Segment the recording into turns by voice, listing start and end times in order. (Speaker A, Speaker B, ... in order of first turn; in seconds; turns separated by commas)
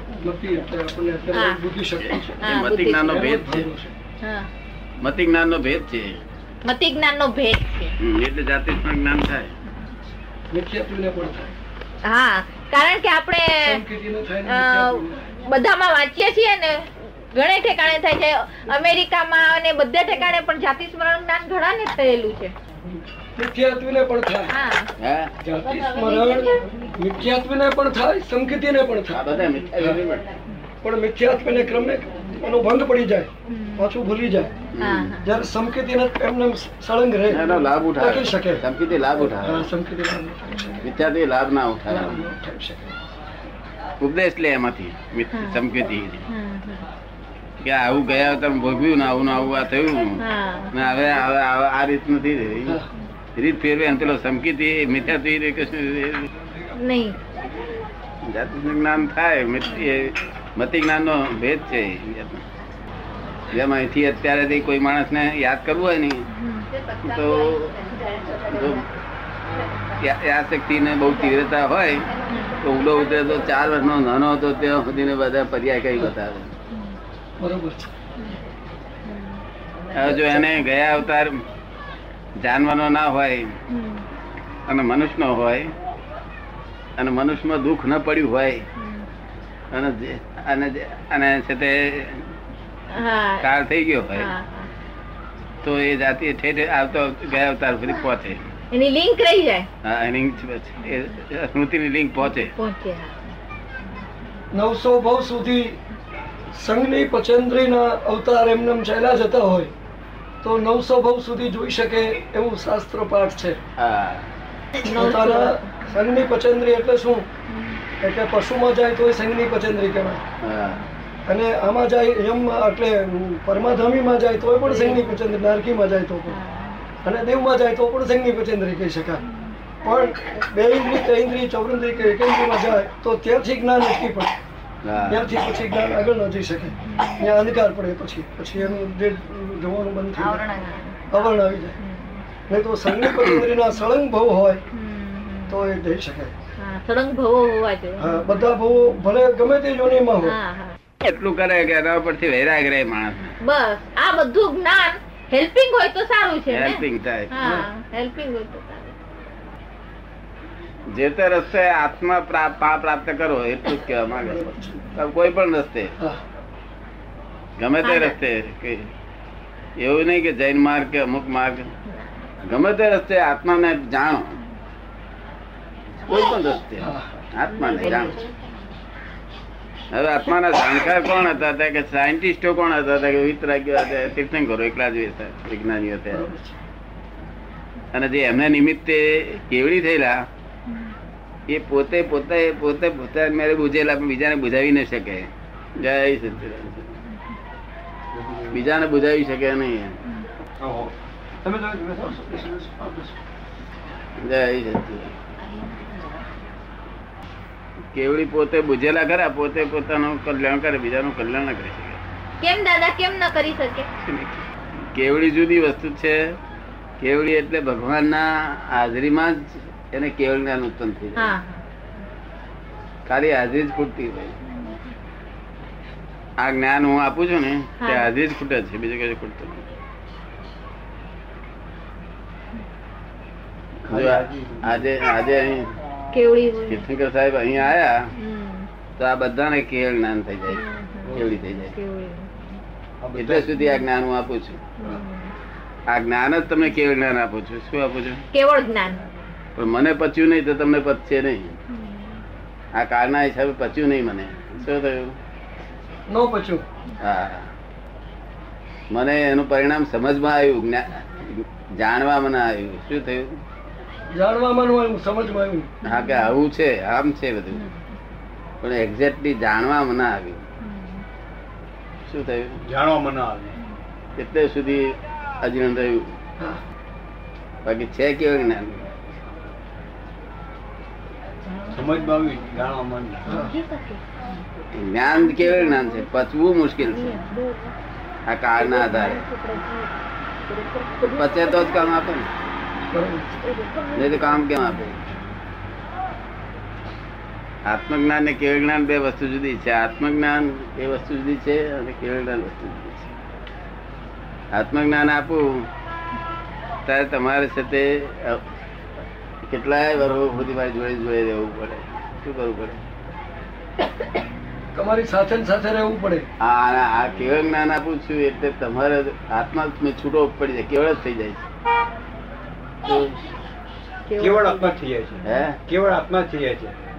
Speaker A: 0.2-3.9, Speaker B: 1.3-1.6, Speaker C: 2.0-3.7, Speaker B: 2.4-3.1, Speaker B: 4.2-4.5, Speaker C: 5.0-6.2, Speaker B: 6.7-8.0, Speaker C: 8.0-9.5, Speaker A: 10.5-11.5, Speaker B: 12.0-13.8, Speaker A: 13.6-15.2, Speaker B: 14.5-22.5, Speaker A: 23.4-24.6, Speaker B: 24.5-24.9, Speaker C: 25.0-25.3, Speaker A: 25.4-29.2, Speaker C: 29.1-30.2, Speaker A: 30.8-34.5, Speaker B: 33.5-33.9, Speaker C: 34.8-35.2, Speaker B: 34.8-35.3, Speaker A: 35.2-40.9, Speaker C: 37.3-39.7, Speaker B: 40.5-40.9, Speaker C: 40.8-42.3, Speaker A: 41.9-43.0, Speaker C: 44.0-46.3, Speaker B: 45.3-45.6, Speaker B: 46.3-46.9, Speaker C: 47.6-50.2, Speaker B: 50.2-50.8, Speaker C: 50.7-52.8, Speaker C: 53.4-56.3, Speaker B: 56.8-57.2, Speaker C: 58.2-62.4, Speaker C: 63.5-66.3, Speaker B: 66.3-67.0, Speaker C: 67.0-67.8, Speaker B: 68.0-68.6, Speaker C: 68.5-68.9, Speaker C: 70.0-72.1, Speaker B: 72.3-72.6, Speaker C: 72.6-76.5, Speaker A: 77.4-77.9, Speaker B: 79.1-79.4, Speaker C: 79.9-81.3, Speaker A: 80.0-80.4, Speaker C: 82.4-83.5, Speaker B: 83.7-84.1, Speaker C: 84.7-85.7, Speaker C: 87.0-88.7, Speaker B: 88.8-89.1, Speaker C: 89.7-92.3, Speaker B: 92.9-93.5, Speaker C: 93.4-94.3, Speaker B: 94.2-94.7, Speaker C: 95.6-98.5, Speaker B: 98.7-99.7, Speaker C: 99.8-102.5, Speaker B: 102.2-103.2, Speaker A: 104.5-105.8, Speaker A: 106.5-109.7, Speaker A: 110.4-113.6, Speaker C: 113.8-114.3, Speaker B: 114.8-115.7, Speaker A: 114.8-117.3, Speaker B: 117.5-117.8, Speaker A: 118.0-120.2, Speaker C: 120.4-120.8, Speaker A: 121.3-126.4, Speaker B: 124.7-125.0, Speaker B: 126.3-126.8, Speaker A: 127.0-129.2, Speaker A: 129.8-134.3, Speaker C: 134.8-135.2, Speaker A: 135.1-140.4, Speaker B: 136.8-137.3, Speaker B: 140.2-141.0, Speaker A: 141.1-141.8, Speaker B: 141.8-142.2, Speaker A: 142.5-144.6, Speaker C: 143.0-143.5, Speaker B: 144.7-145.7, Speaker A: 145.5-146.3, Speaker B: 146.6-148.2, Speaker A: 148.0-150.4, Speaker B: 150.2-150.8, Speaker C: 151.0-153.4, Speaker B: 153.4-158.9, Speaker C: 156.5-157.3, Speaker C: 160.9-166.0, Speaker A: 164.4-164.8, Speaker C: 167.6-168.9, Speaker B: 167.8-168.2, Speaker C: 169.8-171.7, Speaker C: 172.4-174.4, Speaker C: 176.0-178.2, Speaker A: 176.8-177.1, Speaker B: 177.6-178.4, Speaker C: 179.9-186.3, Speaker A: 186.1-186.6, Speaker C: 187.9-190.3, Speaker C: 191.5-196.9, Speaker D: 198.1-198.6, Speaker C: 198.5-200.0, Speaker D: 200.6-200.9, Speaker A: 201.4-203.1, Speaker C: 204.2-205.2, Speaker C: 207.9-212.0, Speaker B: 212.4-213.9, Speaker C: 214.1-216.4, Speaker C: 217.0-221.3, Speaker B: 221.2-221.6, Speaker C: 223.1-224.3, Speaker C: 226.4-229.6, Speaker B: 227.8-228.1, Speaker D: 233.9-234.9, Speaker C: 233.9-235.8, Speaker B: 236.1-236.9, Speaker C: 236.7-238.1, Speaker B: 238.1-238.7, Speaker C: 239.0-240.6, Speaker B: 240.5-242.3, Speaker D: 241.1-241.3, Speaker C: 241.1-241.7, Speaker D: 243.0-243.5, Speaker C: 243.2-244.6, Speaker B: 244.8-245.3, Speaker C: 245.9-248.2, Speaker B: 248.3-249.0, Speaker C: 249.6-251.6, Speaker B: 251.7-252.2, Speaker C: 252.8-255.2, Speaker A: 256.1-256.6, Speaker C: 257.0-257.5, Speaker C: 258.9-263.4, Speaker A: 264.1-265.7, Speaker B: 265.8-266.3, Speaker C: 265.8-267.6, Speaker C: 268.6-270.4, Speaker B: 270.6-271.0, Speaker C: 272.1-272.6, Speaker D: 272.6-273.6, Speaker C: 274.2-276.1, Speaker C: 277.6-278.9, Speaker D: 281.7-283.3, Speaker B: 283.3-284.0, Speaker A: 283.3-283.5, Speaker C: 284.7-287.1, Speaker B: 285.1-286.2, Speaker B: 286.8-287.7, Speaker C: 288.3-289.2, Speaker B: 288.6-289.9, Speaker B: 290.5-291.8, Speaker C: 291.1-292.3, Speaker A: 292.9-293.4, Speaker B: 293.4-294.6, Speaker C: 294.0-295.0, Speaker C: 297.7-303.1, Speaker C: 304.5-305.7, Speaker C: 306.9-308.4, Speaker C: 309.4-312.8, Speaker A: 314.8-316.3, Speaker C: 316.4-321.4, Speaker C: 322.8-323.2, Speaker B: 324.1-324.8, Speaker D: 324.2-326.8, Speaker C: 325.2-325.6